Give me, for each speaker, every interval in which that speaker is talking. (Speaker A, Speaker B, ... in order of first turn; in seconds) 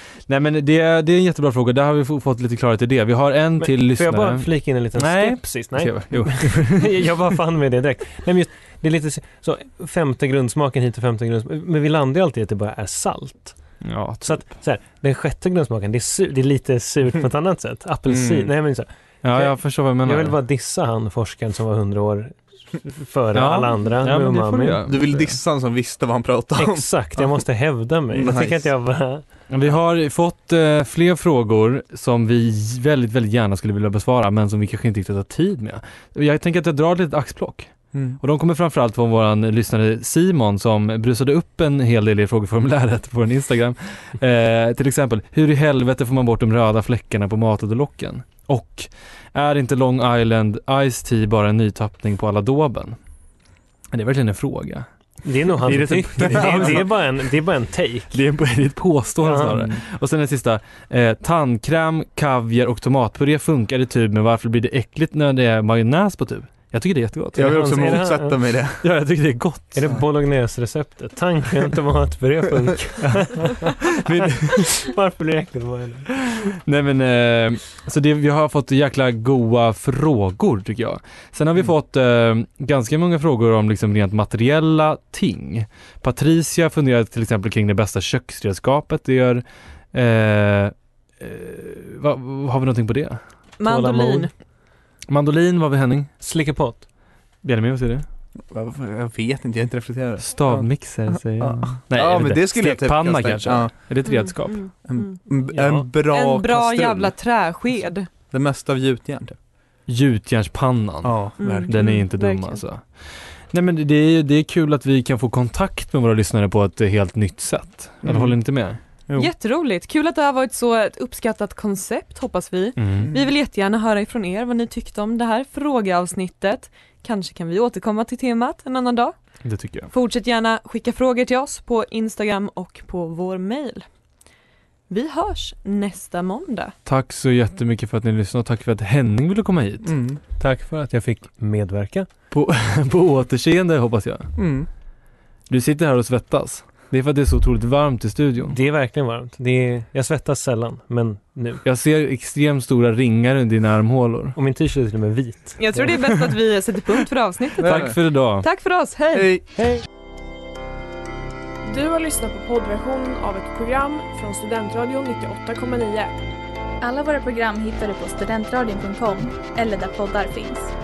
Speaker A: 0.3-7.1, 13.8-14.5, 19.2-20.4, 23.3-25.3, 29.5-53.0, 53.9-54.9, 55.6-57.0, 58.1-67.6, 68.8-69.8, 73.9-74.7, 76.4-93.2, 95.1-96.1, 97.4-98.0, 100.2-104.7, 109.9-118.8, 122.8-123.1, 129.4-129.9, 136.8-139.9, 142.3-144.3, 145.5-148.6, 151.6-154.4, 157.6-158.5
Speaker B: 3.6-24.9, 26.6-29.8, 55.2-58.1, 59.2-59.8, 67.5-68.4, 69.7-73.7, 74.5-76.3, 93.7-94.3, 96.2-96.9, 105.5-105.9, 140.4-142.1, 148.4-151.6, 154.3-156.0, 159.6-159.8
Speaker C: 18.1-18.5, 24.9-27.4, 28.1-28.8, 37.9-38.2, 56.2-56.8, 67.3-68.8, 98.5-104.0, 104.8-107.1, 108.2-109.4, 111.0-111.7, 118.0-118.4, 122.9-123.2, 139.8-140.2, 144.4-144.7, 157.6-158.2, 159.1-159.6
Speaker D: 93.6-94.3, 104.0-105.2, 106.1-108.1, 111.4-112.6, 119.1-129.4, 129.9-133.9, 134.9-136.7, 155.6-159.3
Speaker E: 161.7-166.1
Speaker F: 166.8-170.7